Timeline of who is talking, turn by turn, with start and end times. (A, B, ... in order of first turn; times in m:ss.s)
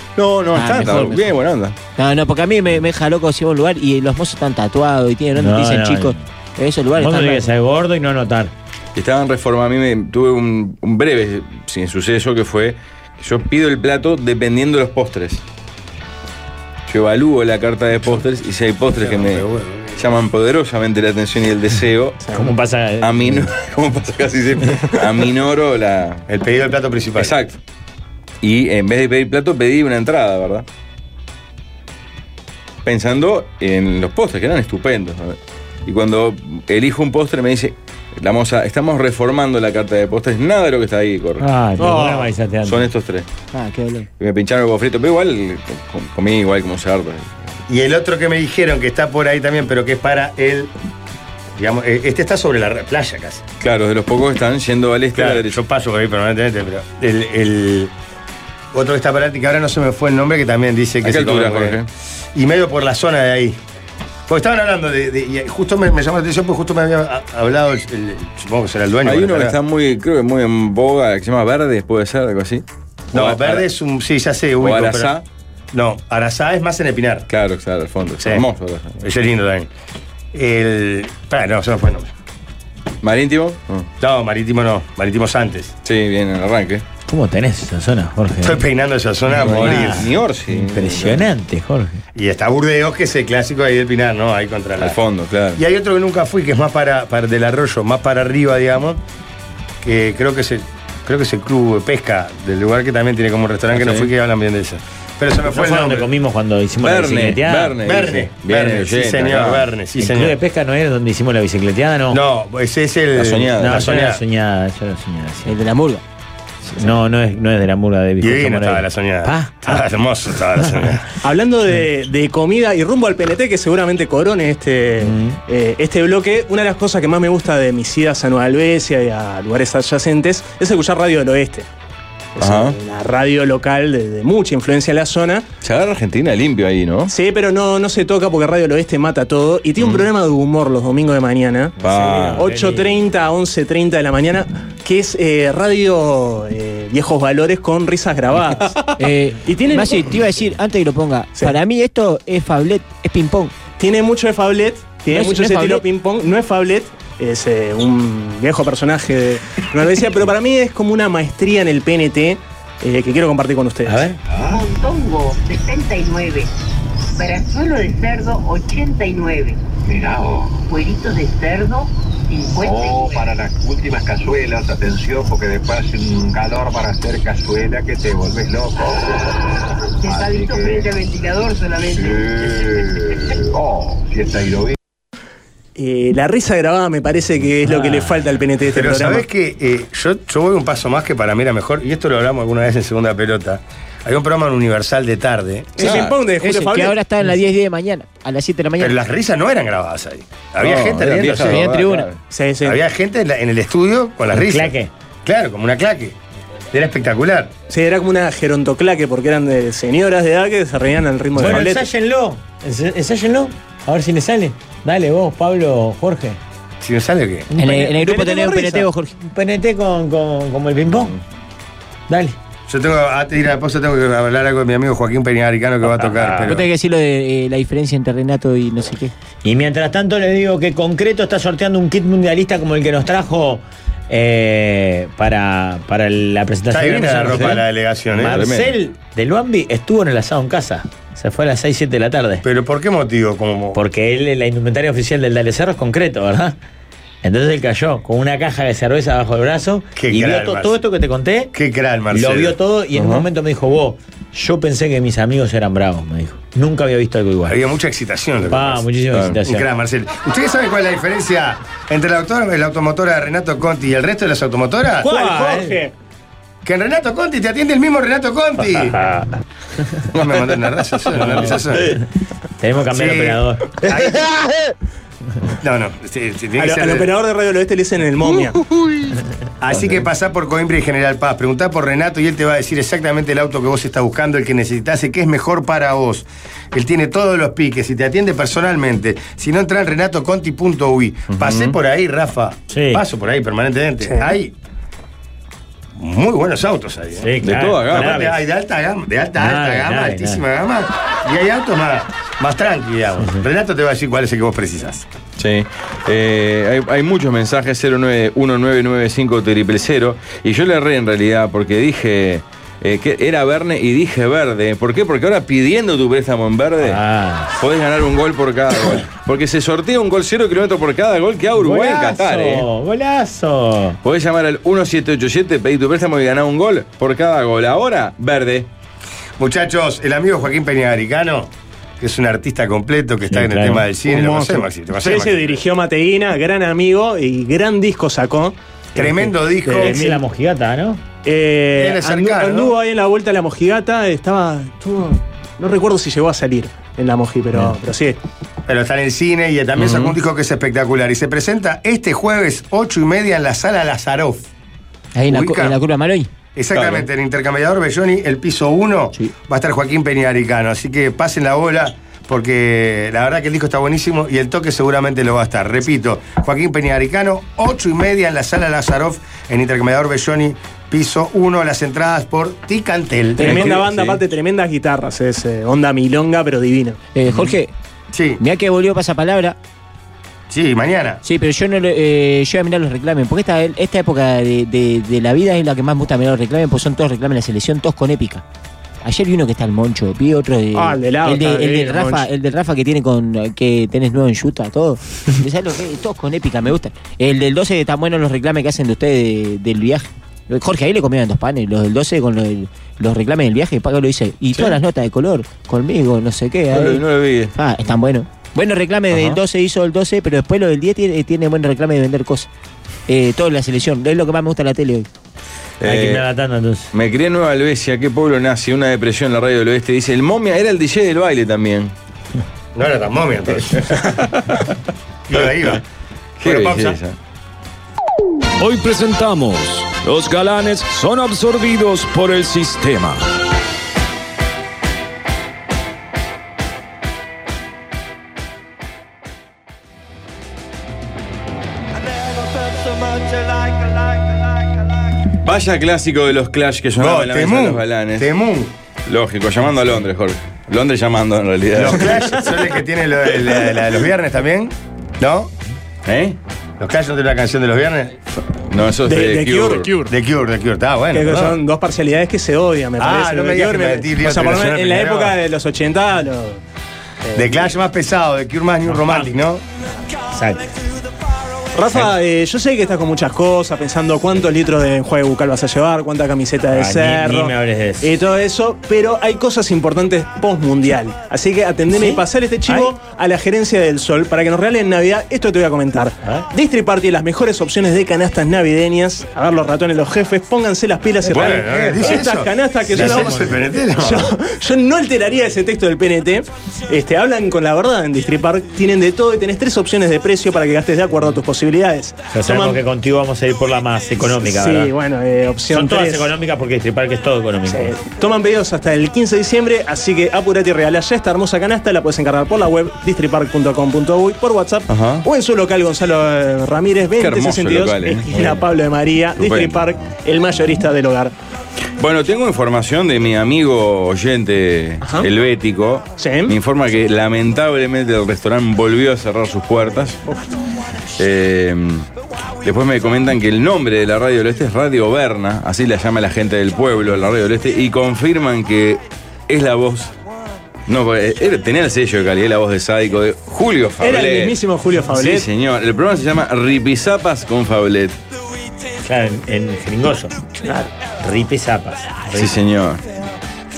0:00.2-0:01.8 A
0:00.5-0:01.3 B
0:02.0-0:07.5 B
0:05.4-0:06.2 C
0:07.0-0:08.5 C
0:09.0-0:15.4 A
0:16.9-0:19.4 A
0:19.0-0:20.2 D
0:20.0-0:22.2 A
0:22.3-0:23.4 C
0:23.0-0:26.3 A
0:26.3-0:27.4 D
0:27.2-0:27.6 A
0:28.4-0:30.7 A
0:32.8-0:41.4 A
0:41.4-0:42.9 C
0:41.8-0:42.3 E
0:42.6-0:43.3 A
0:43.5-0:44.1 B
0:44.2-0:47.5 A
0:47.7-0:50.7 D
0:51.6-0:53.4 D
0:53.6-0:55.6 A
0:55.1-0:57.9 D
0:58.7-1:01.8 D
1:01.0-1:01.9 A
1:02.4-1:03.6 D
1:04.3-1:09.6 D
1:09.0-1:13.7 A
1:13.1-1:15.2 D
1:14.6-1:15.2 A
1:15.7-1:17.3 D
1:17.3-1:19.0 A
1:18.2-1:18.4 D
1:19.0-1:19.7 D
1:20.3-1:22.1 D
1:23.0-1:23.9 A
1:24.0-1:25.7 D
1:25.8-1:26.8 A
1:27.1-1:28.6 C
1:28.4-1:30.1 D
1:29.3-1:31.3 A
1:29.4-1:32.0 C
1:32.2-1:35.0 D
1:34.8-1:35.6 A
1:35.6-1:39.0 D
1:39.8-1:46.1 D
1:43.7-1:44.1 A
1:45.5-1:47.8 C
1:46.8-1:49.7 A
1:47.8-1:50.4 D
1:50.0-1:52.2 C
1:52.1-1:54.2 D
1:53.2-1:53.9 A
1:53.6-1:55.6 C
1:55.5-1:56.0 B
1:56.6-1:59.8 C
1:58.2-2:01.1 D
2:01.2-2:11.7 E
2:05.0-2:05.4 C
2:12.4-2:15.5 E
2:12.4-2:12.8 A
2:15.6-2:17.1 A
2:17.1-2:30.2 E
2:19.8-2:20.1 A
2:21.8-2:22.6 A
2:29.0-2:33.6 B
2:33.8-2:44.1 E
2:35.1-2:35.8 B
2:43.8-2:44.2 C
2:44.3-2:44.7 F
2:44.4-2:46.5 G
2:47.2-2:49.6 G
2:49.8-2:50.7 F
2:50.7-2:53.3 G
2:52.6-2:59.4 F
3:00.0-3:03.3 G
3:00.0-3:00.9 F
3:01.9-3:04.8 F
3:05.8-3:09.2 E
3:08.7-3:15.9 D
3:15.8-3:17.0 E
3:15.8-3:16.2 A
3:16.3-3:19.0 B
3:18.8-3:21.7 D
3:20.6-3:22.2 A
3:21.4-3:22.1 B
3:22.3-3:22.8 E
3:22.6-3:26.2 D
3:24.3-3:24.9 C
3:26.7-3:27.5 D
3:27.7-3:31.9 E
3:31.4-3:36.4 C
3:36.8-3:37.5 D
3:37.5-3:39.1 B
3:37.6-3:38.9 E
3:39.2-3:41.2 C
3:42.1-3:42.4 C
3:42.7-3:46.7 D
3:46.0-3:46.6 C
3:46.5-3:49.1 B
3:49.4-4:02.4 C
3:56.7-3:58.5 D
3:58.3-3:58.8 A
4:02.4-4:03.8 D
4:03.7-4:06.6 C
4:07.2-4:11.5 C
4:10.0-4:10.8 D
4:11.5-4:12.6 D
4:12.1-4:17.6 C
4:13.0-4:13.2 A
4:17.5-4:18.9 D
4:18.5-4:19.7 C
4:19.1-4:19.4 A
4:19.4-4:25.1 D
4:25.0-4:25.8 C
4:25.0-4:25.9 E
4:26.6-4:29.0 D
4:30.1-4:32.0 D
4:31.2-4:32.0 C
4:32.6-4:33.9 C
4:32.9-4:34.4 D
4:35.6-4:37.1 D
4:36.6-4:38.6 E
4:39.6-4:54.5 D
4:51.3-4:51.8 A
4:52.7-4:53.0 C
4:54.0-4:54.3 E
4:56.0-4:57.4 D
4:57.2-4:58.4 C
4:57.4-4:58.2 A
4:57.9-5:05.1 D
4:59.4-5:00.4 C
5:05.4-5:17.0 A
5:16.8-5:17.6 C
5:17.6-5:22.7 A
5:21.6-5:24.0 C
5:24.0-5:28.7 A
5:29.4-5:35.5 D
5:33.3-5:33.9 C
5:34.1-5:40.2 E
5:39.0-5:40.0 D
5:39.7-5:41.0 C
5:41.2-5:48.2 E
5:41.8-5:42.8 D
5:48.7-5:54.5 D
5:49.8-5:50.1 A
5:55.1-5:56.3 B
5:55.3-5:55.8 D
5:56.6-6:13.8 D
5:56.7-5:57.0 A
6:13.4-6:17.0 E
6:13.4-6:14.2 A
6:17.1-6:17.7 B
6:18.1-6:18.4 D
6:18.4-6:19.6 B
6:20.5-6:21.2 D
6:21.2-6:28.4 B
6:29.0-6:52.5 B
6:30.7-6:32.3 E
6:44.5-6:44.8 A
6:46.7-6:47.5 A
6:49.1-6:49.4 A
6:53.1-6:55.1 B
6:55.8-6:56.2 A
6:55.8-6:56.9 C
6:56.9-7:01.9 A
7:02.8-7:04.1 D
7:05.3-7:05.8 D
7:06.4-7:07.2 A
7:06.4-7:07.0 D
7:08.6-7:13.3 H
7:25.4-7:28.3 A
7:27.0-7:28.7 D
7:29.1-7:32.4 A
7:31.7-7:35.5 D
7:36.0-7:36.4 A
7:36.8-7:38.2 D
7:38.6-7:40.0 A
7:39.1-7:39.9 E
7:40.1-7:41.6 D
7:41.1-7:46.6 E
7:43.0-7:45.4 D
7:47.3-7:47.6 E
7:47.3-7:49.6 D
7:50.3-7:50.7 C
7:51.7-8:22.8 E
7:56.7-7:58.1 C
8:02.0-8:02.9 C
8:11.3-8:14.3 D
8:13.0-8:13.5 C
8:22.3-8:24.9 C
8:24.2-8:26.3 E
8:25.7-8:28.0 C
8:27.7-8:41.3 E
8:34.9-8:35.3 A
8:37.2-8:38.6 A
8:39.4-8:40.1 A
8:42.0-8:50.2 A
8:45.0-8:45.3 E
8:46.2-8:46.6 E
8:51.2-8:52.1 A
8:52.6-9:00.1 A
9:00.9-9:04.6 A
9:04.0-9:05.5 E
9:05.1-9:08.2 A
9:09.0-9:10.4 C
9:10.6-9:10.9 E
9:11.2-9:12.5 C
9:12.3-9:13.0 A